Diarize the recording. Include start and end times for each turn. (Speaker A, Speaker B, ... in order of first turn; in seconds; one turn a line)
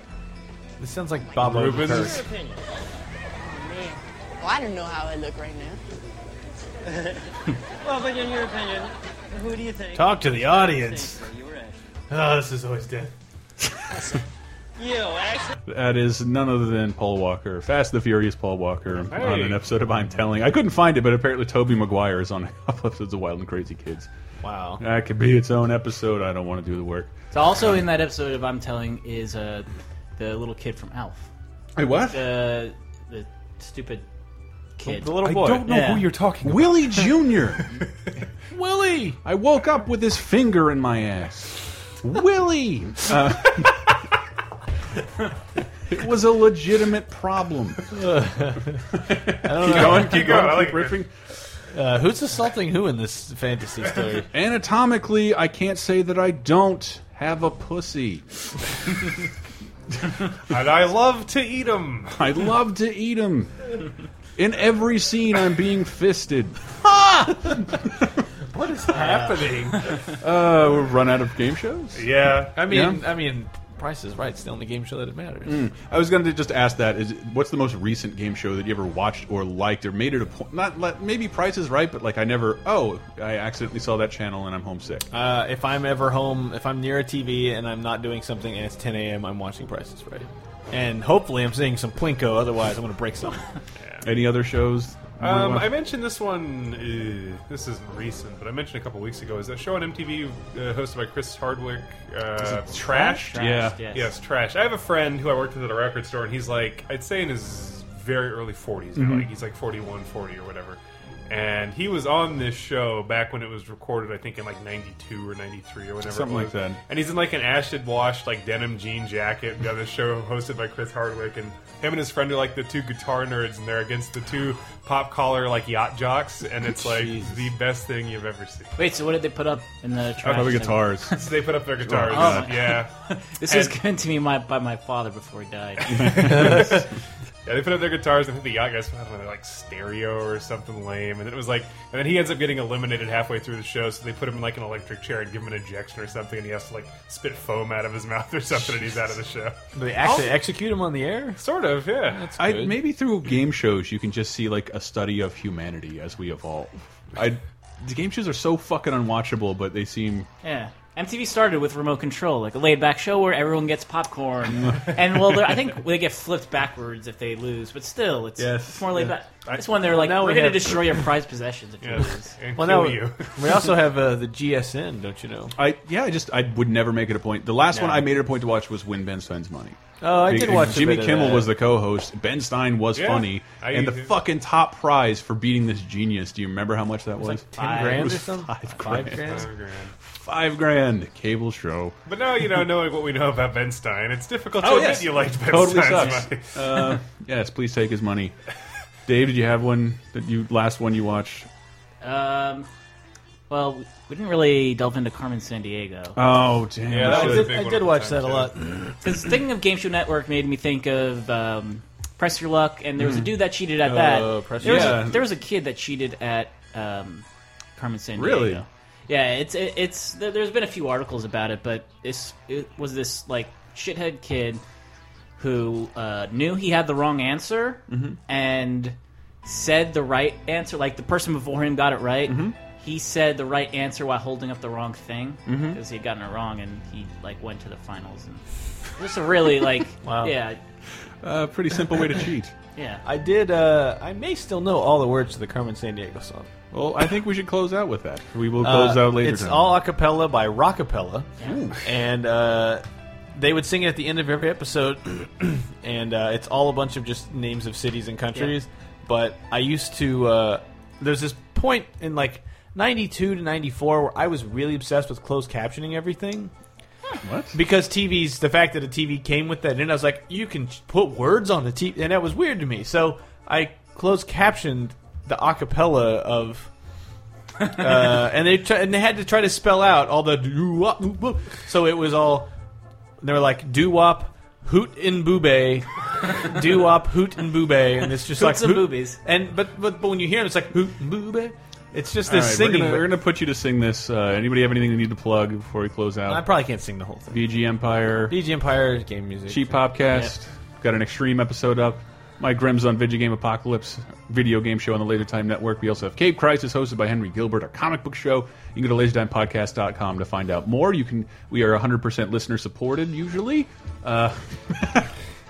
Speaker A: 0.8-2.2
Speaker B: 1.4-2.2
Speaker C: 2.0-2.6
Speaker D: 3.5-5.8
Speaker C: 6.8-7.3
Speaker C: 7.8-11.8
Speaker A: 9.9-11.3
Speaker A: 12.1-13.1
Speaker C: 14.8-15.6
Speaker E: 15.7-24.1
Speaker B: 19.1-19.6
Speaker A: 24.4-24.8
Speaker E: 24.8-27.1
Speaker F: 27.3-31.3
Speaker E: 31.8-32.4
Speaker F: 31.9-34.0
Speaker F: 34.8-36.1
Speaker A: 34.8-35.8
Speaker B: 35.2-37.7
Speaker E: 36.4-37.8
Speaker A: 38.5-39.2
Speaker E: 39.2-43.8
Speaker E: 45.9-47.8
Speaker A: 47.9-48.9
Speaker E: 49.0-51.1
Speaker A: 49.4-50.5
Speaker B: 49.6-51.0
Speaker A: 51.7-54.3
Speaker E: 54.3-58.3
Speaker B: 60.5-62.2
Speaker E: 62.1-63.8
Speaker E: 64.4-67.9
Speaker A: 68.5-69.8
Speaker B: 68.9-69.8
Speaker E: 70.1-73.0
Speaker B: 72.0-72.5
Speaker A: 72.4-75.6
Speaker E: 75.5-85.1
Speaker A: 85.1-93.5
Speaker B: 93.8-94.1
Speaker E: 94.0-95.8
Speaker B: 95.2-103.3
Speaker E: 102.4-103.8
Speaker F: 103.2-104.1
Speaker B: 103.9-128.8
Speaker E: 109.0-109.3
Speaker E: 116.0-116.8
Speaker A: 126.8-127.5
Speaker F: 128.8-131.1
Speaker E: 130.2-131.2
Speaker B: 130.2-132.9
Speaker E: 131.8-132.6
Speaker F: 132.1-136.7
Speaker B: 133.4-133.8
Speaker B: 135.9-136.8
Speaker E: 136.0-136.8
Speaker B: 137.5-149.6
Speaker A: 149.8-151.4
Speaker B: 151.4-152.3
Speaker A: 152.1-152.8
Speaker E: 152.4-160.3
Speaker F: 160.4-172.3
Speaker E: 168.4-169.7
Speaker A: 169.9-170.9
Speaker B: 171.8-173.7
Speaker A: 172.6-175.6
Speaker E: 175.6-189.5
Speaker A: 177.7-178.0
Speaker A: 180.0-181.5
Speaker B: 182.9-184.2
Speaker A: 187.2-189.5
Speaker F: 187.6-188.2
Speaker B: 189.2-189.9
Speaker E: 190.0-192.0
Speaker B: 192.1-196.5
Speaker E: 194.6-198.3
Speaker E: 199.1-201.5
Speaker F: 202.0-202.7
Speaker F: 203.5-206.3
Speaker E: 206.2-207.5
Speaker B: 206.9-208.5
Speaker A: 206.9-208.9
Speaker F: 209.0-217.2
Speaker E: 213.0-213.3
Speaker A: 213.8-215.1
Speaker E: 214.6-215.3
Speaker F: 217.8-224.6
Speaker E: 218.2-218.6
Speaker F: 225.4-240.6
Speaker E: 227.9-228.2
Speaker E: 232.3-232.6
Speaker E: 235.5-235.8
Speaker A: 240.0-240.4
Speaker E: 241.2-242.5
Speaker F: 242.8-243.0
Speaker A: 243.1-246.5
Speaker E: 246.7-249.8
Speaker A: 248.6-251.3
Speaker E: 251.4-251.8
Speaker A: 251.8-266.5
Speaker E: 267.2-267.6
Speaker A: 267.5-276.7
Speaker A: 277.6-282.5
Speaker A: 283.2-293.1
Speaker F: 288.3-289.2
Speaker E: 292.3-296.5
Speaker A: 296.3-297.5
Speaker E: 297.3-298.4
Speaker A: 298.3-299.8
Speaker E: 299.5-315.1